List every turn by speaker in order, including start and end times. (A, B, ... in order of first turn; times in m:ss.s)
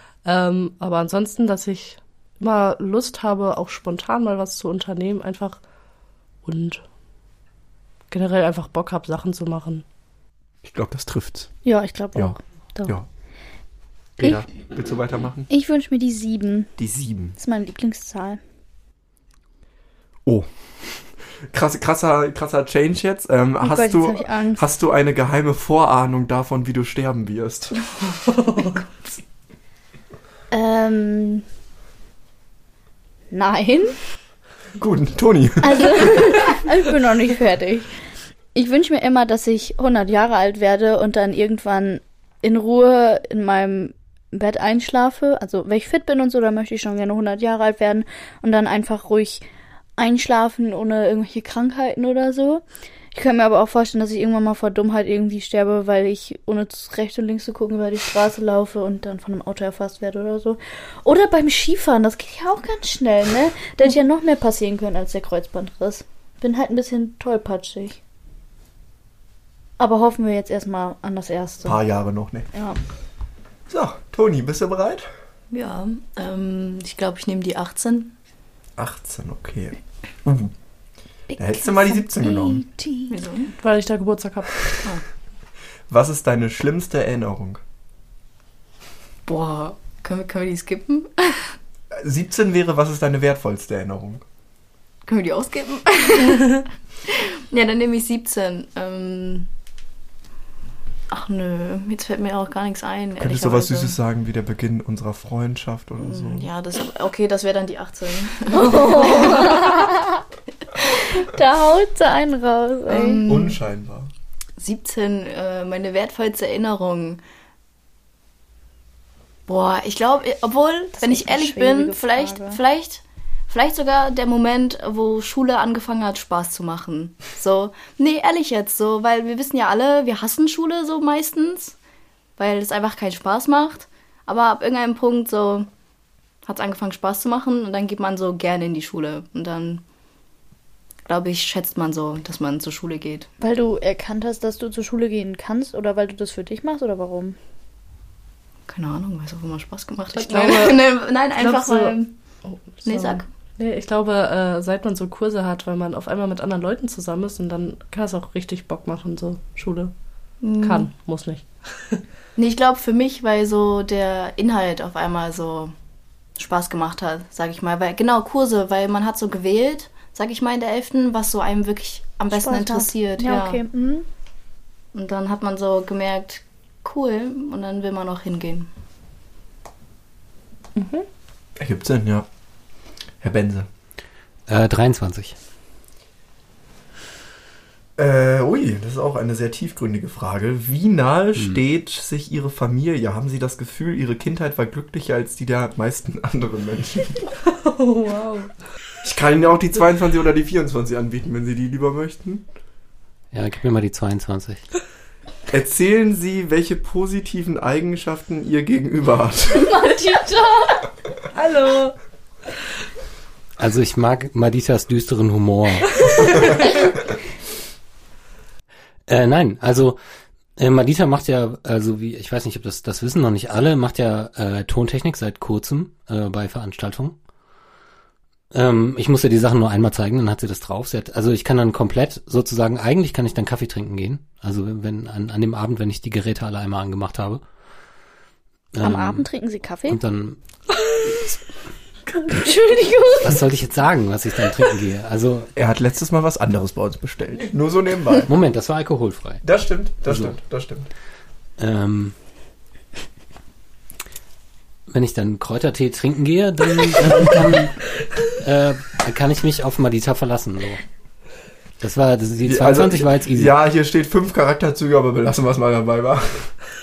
0:00.2-0:05.6 A
0:06.4-0:06.8 A
0:08.1-0:09.8 A
0:10.6-0:11.5 B
0:11.6-0:13.0 C
0:12.2-0:13.1 B
0:14.2-0:15.5 B
0:15.5-0:16.7 C
0:16.8-0:17.4 B
0:17.4-0:18.4 C
0:20.2-0:27.8 B
0:23.6-0:24.6 C
0:28.1-0:28.8 A
0:30.5-0:31.4 C
0:33.3-0:34.0 C
0:34.8-0:36.4 B
0:35.6-0:37.9 C
0:38.5-0:49.4 C
0:50.0-1:08.0 C
1:09.8-1:11.8 C
1:11.6-1:12.5 B
1:12.5-1:12.8 C
1:13.7-1:15.1 B
1:15.5-1:18.2 D
1:18.8-1:20.5 B
1:21.3-1:23.2 C
1:21.4-1:22.7 B
1:23.1-1:23.6 D
1:23.6-1:24.9 A
1:25.9-1:27.6 B
1:29.3-1:31.6 D
1:31.9-1:34.2 B
1:35.1-1:39.5 D
1:41.1-1:44.0 D
1:43.2-1:46.5 B
1:46.0-1:50.0 D
1:48.5-1:50.2 C
1:51.1-1:53.2 C
1:52.9-1:53.6 D
1:53.2-1:54.1 B
1:54.6-1:57.2 D
1:59.5-2:11.8 D
2:01.0-2:02.6 C
2:12.4-2:15.7 D
2:16.4-2:19.8 D
2:21.1-2:23.3 D
2:23.4-2:27.4 C
2:28.7-2:32.1 D
2:30.2-2:39.9 A
2:32.8-2:33.3 D
2:40.4-2:40.9 D
2:40.6-2:42.0 A
2:42.4-2:45.8 D
2:46.4-2:53.6 D
2:52.3-2:54.1 C
2:54.9-2:58.7 D
3:00.8-3:01.1 A
3:01.6-3:02.3 B
3:03.2-3:03.7 B
3:04.5-3:05.4 E
3:08.0-3:17.2 B
3:17.5-3:18.6 A
3:19.0-3:22.4 B
3:23.3-3:24.6 E
3:25.5-3:29.8 B
3:29.7-3:30.8 C
3:31.4-3:32.0 A
3:33.6-3:36.7 E
3:36.1-3:36.6 A
3:39.1-3:40.0 E
3:40.6-3:47.2 E
3:48.5-3:57.4 E
3:58.7-3:59.3 E
3:58.8-4:00.0 C
3:59.9-4:00.4 E
4:02.1-4:03.4 C
4:03.2-4:05.5 E
4:05.6-4:08.3 B
4:08.3-4:09.4 E
4:09.4-4:10.9 B
4:10.1-4:10.3 E
4:11.6-4:12.2 E
4:14.9-4:20.8 E
4:21.8-4:23.5 E
4:22.4-4:26.5 B